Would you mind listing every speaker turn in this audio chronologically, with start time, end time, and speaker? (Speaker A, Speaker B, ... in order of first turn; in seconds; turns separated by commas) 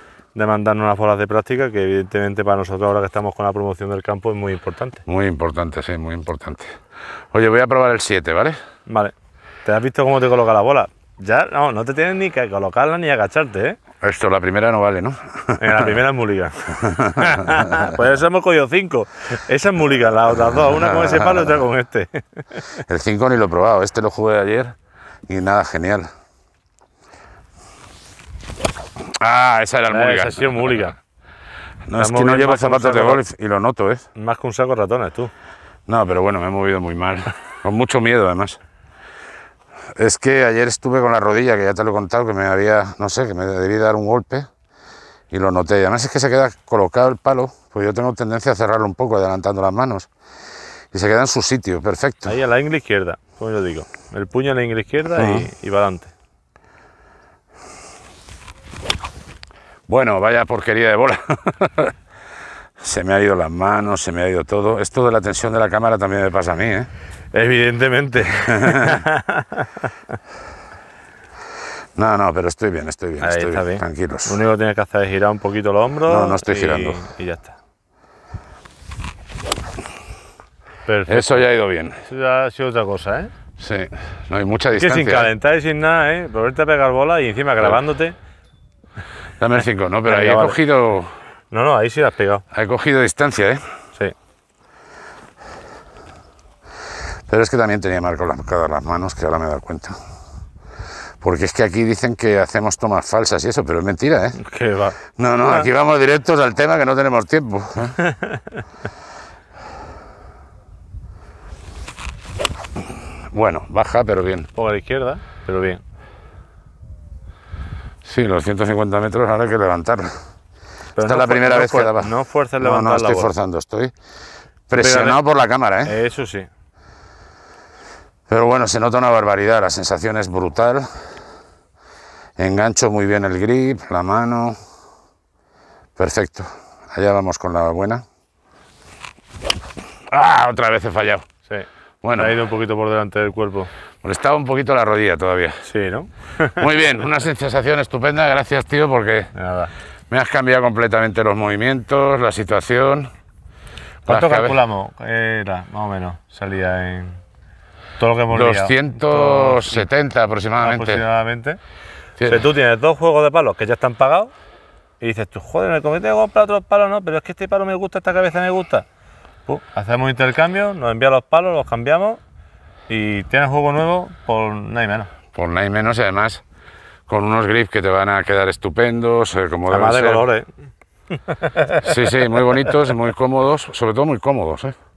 Speaker A: 0.3-5.0, Speaker B: 5.1-6.8, Speaker B: 7.3-8.6, Speaker A: 8.9-9.1, Speaker A: 9.7-13.8, Speaker B: 14.0-16.0, Speaker A: 15.6-22.8, Speaker B: 16.8-17.9, Speaker B: 20.4-21.6, Speaker B: 22.9-24.8, Speaker B: 25.3-26.1, Speaker B: 29.0-30.9, Speaker A: 29.9-31.0, Speaker B: 31.9-34.1, Speaker A: 32.0-33.2, Speaker A: 34.1-35.3, Speaker B: 35.9-38.6, Speaker B: 40.0-44.5, Speaker B: 45.3-50.1, Speaker B: 50.9-52.4, Speaker A: 52.3-56.1, Speaker B: 55.1-55.5, Speaker B: 59.9-62.0, Speaker B: 62.8-66.9, Speaker A: 67.3-69.9, Speaker B: 68.4-69.0, Speaker B: 72.0-74.4, Speaker A: 73.2-77.6, Speaker B: 76.1-77.0, Speaker A: 80.9-81.4, Speaker B: 81.1-82.0, Speaker A: 82.1-83.3, Speaker B: 83.6-85.3, Speaker A: 84.8-88.2, Speaker B: 89.4-91.1, Speaker A: 90.1-90.6, Speaker A: 91.5-92.4, Speaker B: 92.5-93.6, Speaker B: 97.3-100.0, Speaker B: 101.2-104.4, Speaker A: 104.4-105.7, Speaker B: 105.2-108.0, Speaker B: 112.9-114.5, Speaker A: 114.5-115.8, Speaker B: 118.0-120.2, Speaker A: 121.0-123.3, Speaker B: 121.0-123.9, Speaker B: 124.7-126.0, Speaker A: 124.7-125.2, Speaker A: 125.8-126.5, Speaker B: 128.3-131.2, Speaker B: 132.4-134.6, Speaker B: 136.0-138.1, Speaker B: 140.1-141.3, Speaker A: 141.5-143.7, Speaker B: 142.0-142.4, Speaker B: 144.0-145.7, Speaker A: 145.6-146.6, Speaker B: 146.6-149.3, Speaker A: 149.3-149.7, Speaker B: 150.1-153.1, Speaker A: 154.1-157.2, Speaker B: 154.1-154.6, Speaker A: 158.0-159.9, Speaker B: 158.3-161.0, Speaker A: 160.6-161.6, Speaker B: 162.2-162.4, Speaker A: 162.3-164.3, Speaker A: 165.0-168.9, Speaker A: 169.5-172.2, Speaker A: 172.9-175.1, Speaker B: 175.3-176.4, Speaker B: 177.1-180.2, Speaker A: 179.7-180.5, Speaker A: 181.1-181.9, Speaker B: 181.8-184.8